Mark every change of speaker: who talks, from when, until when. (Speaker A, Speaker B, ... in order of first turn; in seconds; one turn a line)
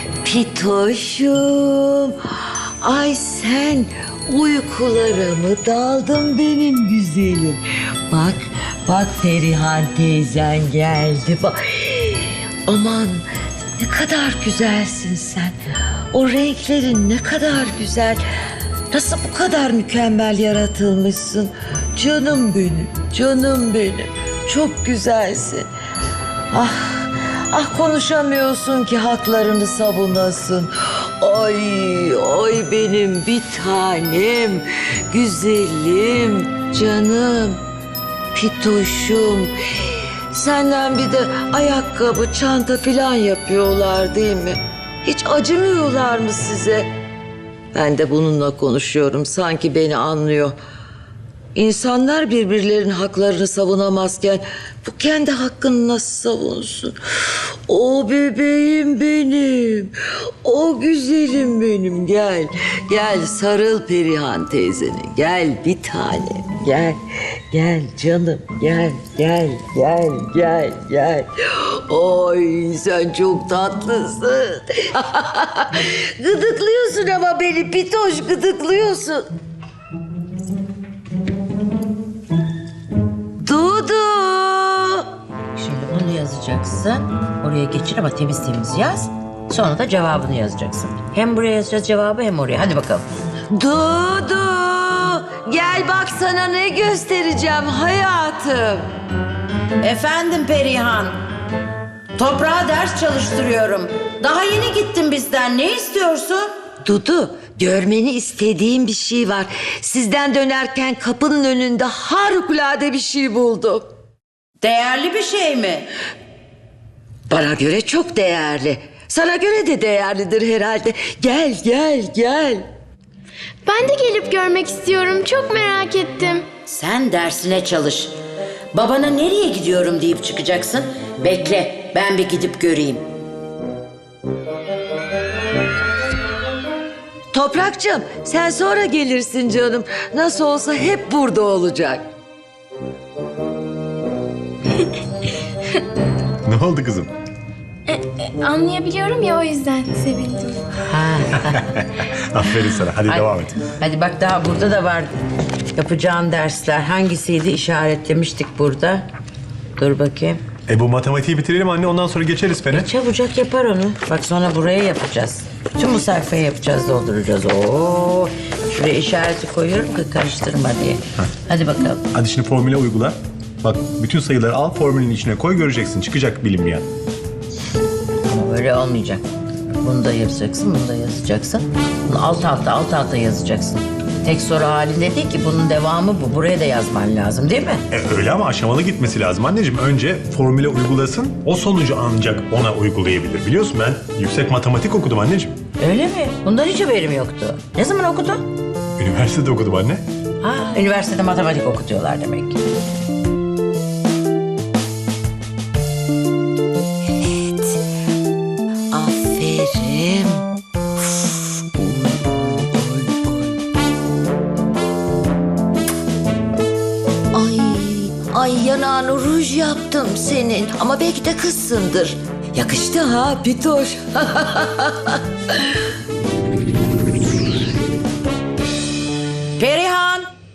Speaker A: 0.2-15.6
Speaker A: 16.1-18.2
Speaker A: 18.9-25.7
Speaker A: 26.5-37.6
Speaker A: 38.3-46.9
Speaker A: 47.7-50.5
Speaker A: 51.5-79.3
Speaker A: 83.4-85.1
Speaker B: 85.5-93.0
Speaker A: 93.5-98.9
Speaker B: 99.8-101.2
Speaker B: 102.2-106.5
Speaker A: 106.8-113.9
Speaker B: 114.6-115.9
Speaker A: 117.3-122.7
Speaker C: 123.6-126.5
Speaker B: 126.7-128.1
Speaker B: 128.7-133.0
Speaker A: 137.3-142.1
Speaker D: 146.4-147.1
Speaker C: 147.9-150.6
Speaker B: 150.8-151.7
Speaker D: 151.6-153.6
Speaker B: 153.0-155.1
Speaker B: 155.7-159.1
Speaker B: 159.8-160.4
Speaker D: 160.7-162.9
Speaker B: 162.7-172.0
Speaker D: 172.1-176.8
Speaker B: 178.3-179.2
Speaker B: 179.8-187.8
Speaker D: 187.9-195.6
Speaker B: 195.8-198.4
Speaker D: 199.0-200.0
Speaker B: 200.4-202.6
Speaker A: 207.1-207.8
Speaker A: 208.9-210.4
Speaker A: 211.0-213.6
Speaker A: 217.3-225.9
Speaker B: 229.6-230.3